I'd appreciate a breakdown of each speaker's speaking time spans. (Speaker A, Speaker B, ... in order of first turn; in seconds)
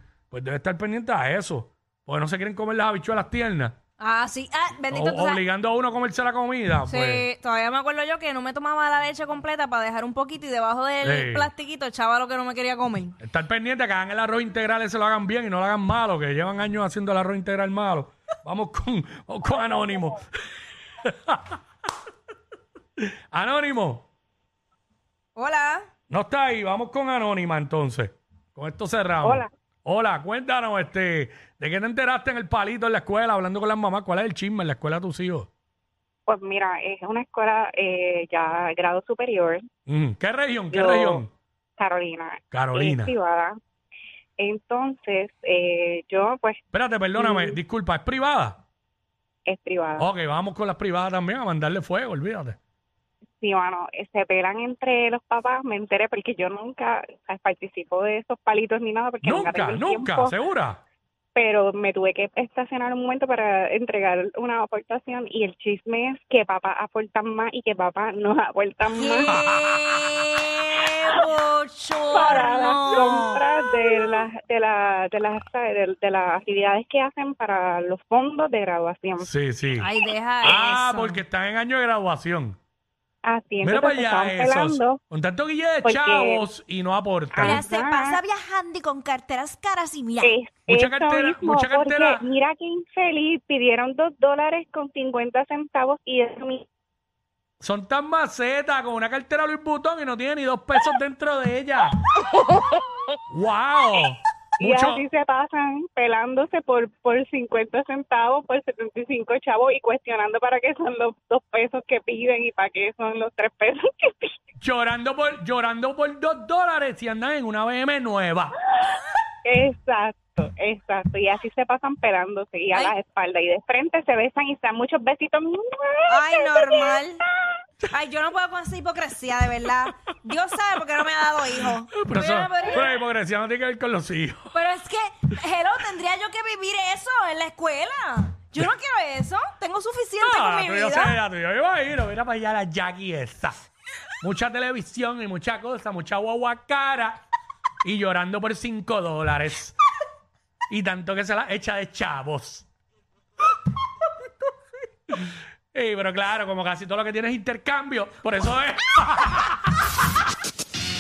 Speaker A: 0.3-3.8, 4.9-7.2, 11.0-11.5, 13.2-20.2, 21.0-21.6, 23.0-24.1, 26.1-35.5, 39.9-41.3, 42.5-43.1, 46.7-48.6, 50.0-52.6, 59.2-60.8, 69.3-70.2, 79.2-79.9, 80.4-82.6, 83.6-87.6, 90.7-92.2, 97.6-102.0, 103.3-105.0, 114.6-118.6, 131.9-134.6, 140.2-143.6, 144.2-147.2, 147.8-149.8, 150.7-152.7, 155.7-159.6
Speaker B: 4.0-5.4, 6.9-13.2, 25.4-25.9, 69.0-73.4, 79.8-81.2, 87.4-90.3, 126.1-127.2, 127.9-132.9, 134.5-141.2
Speaker C: 29.2-29.5, 36.3-39.6, 40.7-41.2, 41.8-43.5, 44.4-46.6, 47.2-47.6, 49.5-50.1, 53.4-60.3, 61.4-69.3, 72.1-79.3, 83.2-85.0, 85.8-86.4, 87.3-88.2, 90.2-96.7, 104.6-114.3, 119.5-127.0